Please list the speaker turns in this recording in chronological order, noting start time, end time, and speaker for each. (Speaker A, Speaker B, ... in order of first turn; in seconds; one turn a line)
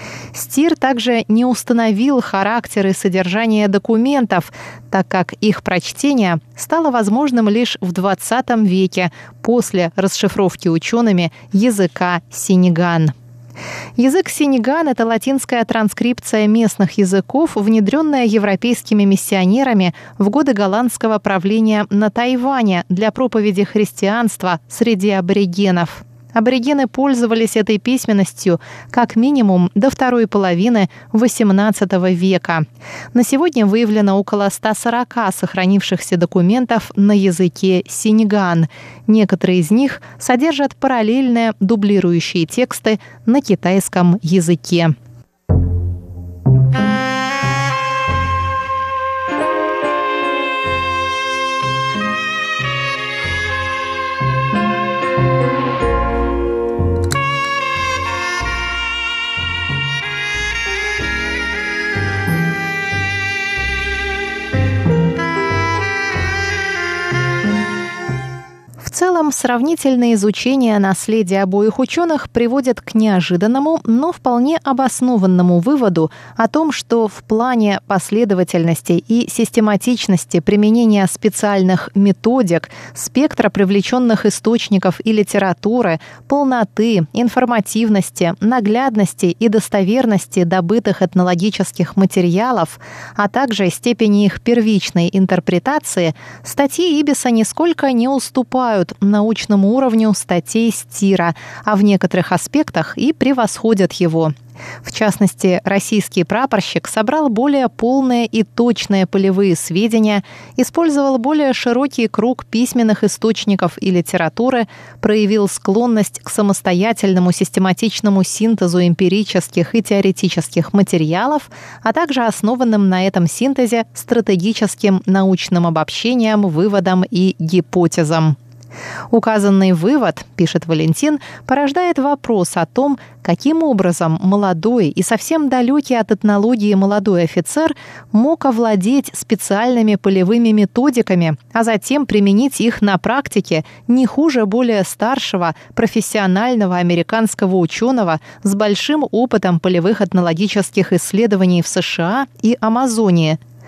Speaker A: 0.3-13.1
Speaker A: 14.0-44.9
Speaker A: 68.8-128.3
Speaker A: 129.1-153.4